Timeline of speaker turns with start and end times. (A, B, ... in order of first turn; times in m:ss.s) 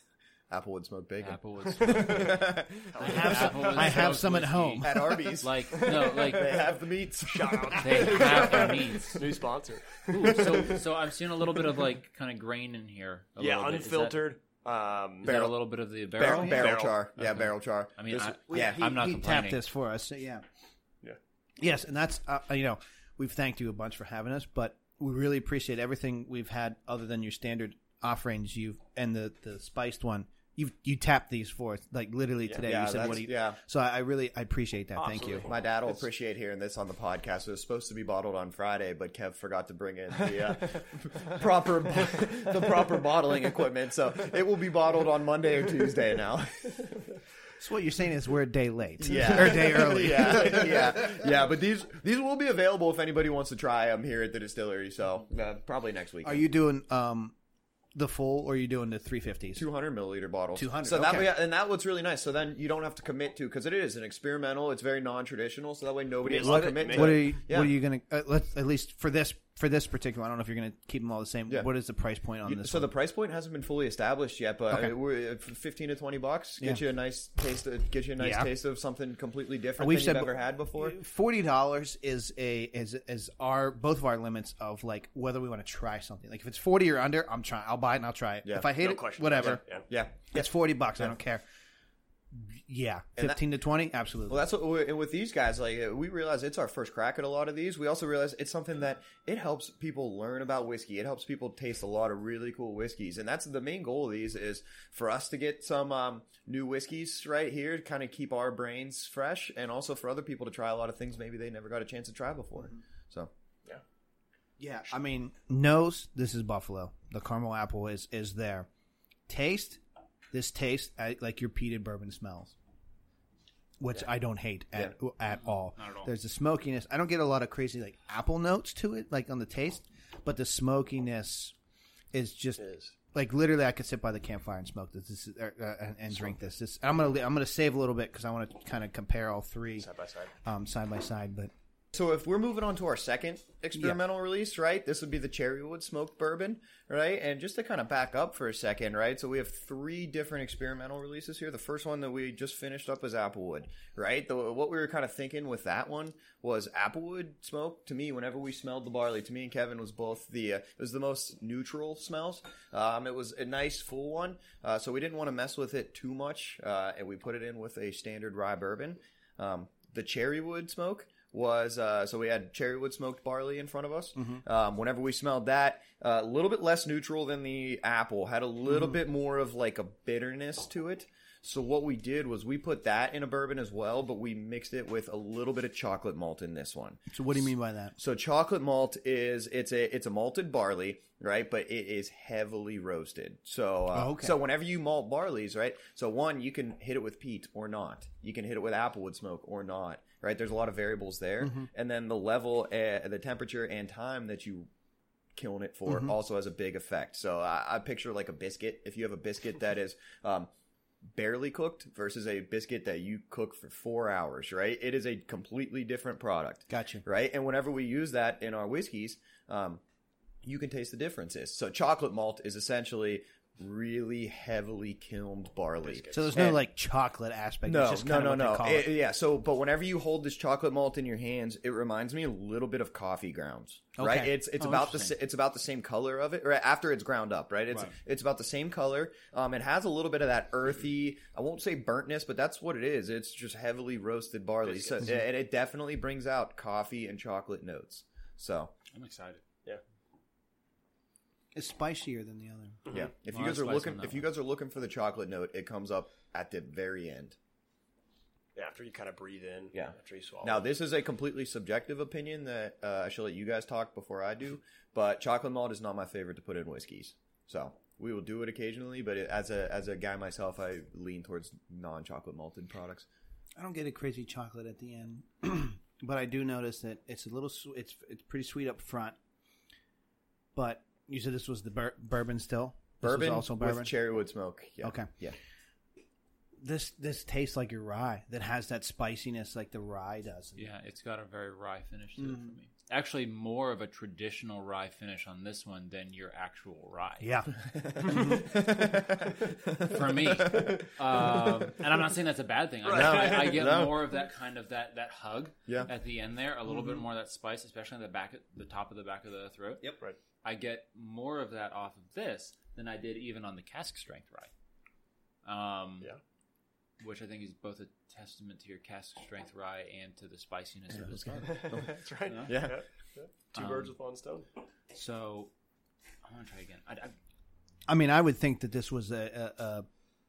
0:00.5-0:03.4 A
0:01.2-0:06.6 B
0:02.8-0:04.1 C
0:03.0-0:05.0 D
0:04.8-0:08.3 A
0:07.2-0:10.8 C
0:07.7-0:09.3 B
0:10.1-0:14.3 B
0:13.4-0:15.3 C
0:15.2-0:19.6 B
0:15.2-0:15.6 A
0:16.1-0:18.9 A
0:16.3-0:16.6 D
0:16.3-0:17.0 C
0:18.5-0:20.4 D
0:21.6-0:35.5 D
0:32.6-0:33.6 A
0:34.9-0:35.7 C
0:35.4-0:46.9 A
0:47.6-0:51.2 D
0:49.0-0:56.4 A
0:56.2-0:57.3 D
0:57.9-0:59.6 D
0:59.5-1:07.7 A
1:00.6-1:01.3 D
1:06.2-1:07.3 C
1:06.4-1:12.9 D
1:12.4-1:21.0 A
1:18.2-1:18.5 D
1:19.8-1:29.6 D
1:28.4-1:28.7 A
1:28.7-1:29.8 C
1:29.9-1:30.5 A
1:30.3-1:31.4 D
1:32.3-1:34.4 D
1:34.3-1:53.3 A
1:54.6-1:58.7 D
1:59.3-1:59.8 D
2:00.3-2:02.5 D
2:03.8-2:11.5 D
2:05.3-2:06.1 B
2:12.1-2:12.6 D
2:12.6-2:12.9 C
2:13.1-2:19.9 D
2:19.8-2:20.3 C
2:20.4-2:21.5 D
2:21.9-3:07.0 A
3:07.1-3:08.0 D
3:08.0-3:24.7 A
3:13.9-3:14.4 D
3:25.3-3:30.5 A
3:31.1-3:39.8 A
3:36.7-3:37.0 D
3:40.4-3:46.6 A
3:45.8-3:46.5 C
3:46.1-3:48.9 D
3:47.6-4:08.7 A
3:54.0-3:54.4 D
3:54.6-3:55.2 B
4:04.6-4:05.0 C
4:08.9-4:09.4 B
4:11.5-4:12.8 D
4:12.9-4:17.4 A
4:13.3-4:14.3 B
4:18.6-4:20.7 C
4:19.7-4:33.0 A
4:33.6-4:39.2 D
4:40.5-4:43.9 D
4:43.0-4:45.4 A
4:44.8-4:45.1 D
4:46.6-4:50.7 D
4:50.6-4:57.3 B
4:52.2-4:52.6 D
4:57.2-4:58.4 D
4:57.7-5:01.4 A
4:59.8-5:14.5 B
5:02.8-5:03.7 C
5:02.9-5:04.2 A
5:15.4-5:16.1 B
5:17.0-5:21.7 B
5:21.0-5:22.8 A
5:21.4-5:24.5 C
5:22.2-5:22.7 B
5:23.5-5:23.9 B
5:24.9-5:25.5 B
5:26.2-5:27.1 B
5:27.9-5:29.8 D